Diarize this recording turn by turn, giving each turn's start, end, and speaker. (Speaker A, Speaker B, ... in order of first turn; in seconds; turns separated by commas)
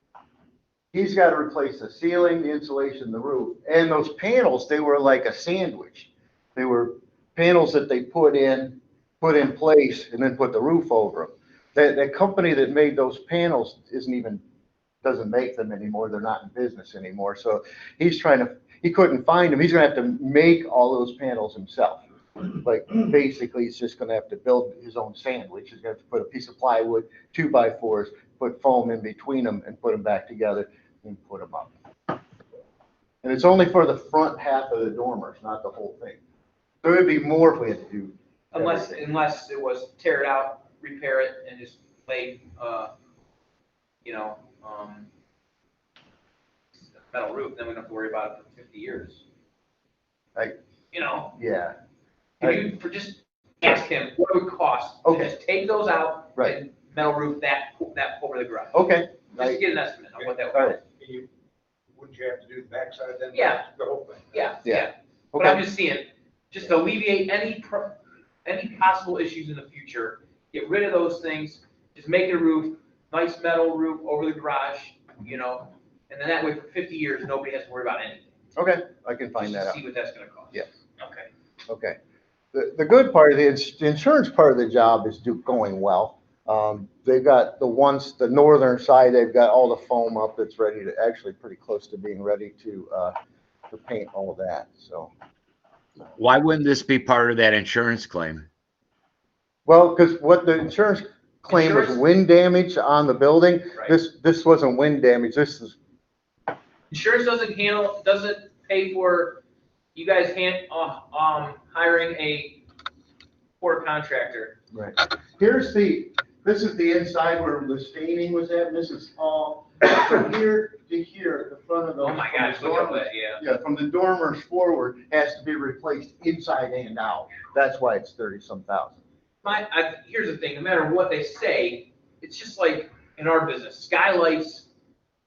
Speaker A: 0.9-14.4, Speaker A: 15.0-31.7, Speaker A: 33.2-36.2, Speaker A: 36.8-39.0, Speaker B: 38.5-42.9, Speaker B: 44.0-45.1, Speaker B: 46.8-49.2, Speaker B: 50.9-51.4, Speaker A: 51.4-51.7, Speaker B: 52.4-60.8, Speaker A: 55.0-55.3, Speaker A: 58.7-59.6, Speaker A: 60.5-60.8, Speaker C: 61.0-61.2, Speaker C: 62.0-64.2, Speaker B: 63.3-63.7, Speaker B: 64.3-78.3, Speaker A: 64.6-65.7, Speaker A: 78.5-79.8, Speaker B: 79.4-81.3, Speaker A: 81.7-82.0, Speaker A: 82.5-93.1, Speaker A: 93.7-95.1, Speaker D: 96.2-98.5, Speaker A: 99.7-105.8, Speaker B: 101.5-102.0, Speaker B: 106.9-109.4, Speaker B: 109.9-112.6, Speaker B: 113.6-114.6, Speaker A: 114.7-129.0, Speaker B: 122.0-123.4, Speaker B: 129.4-134.7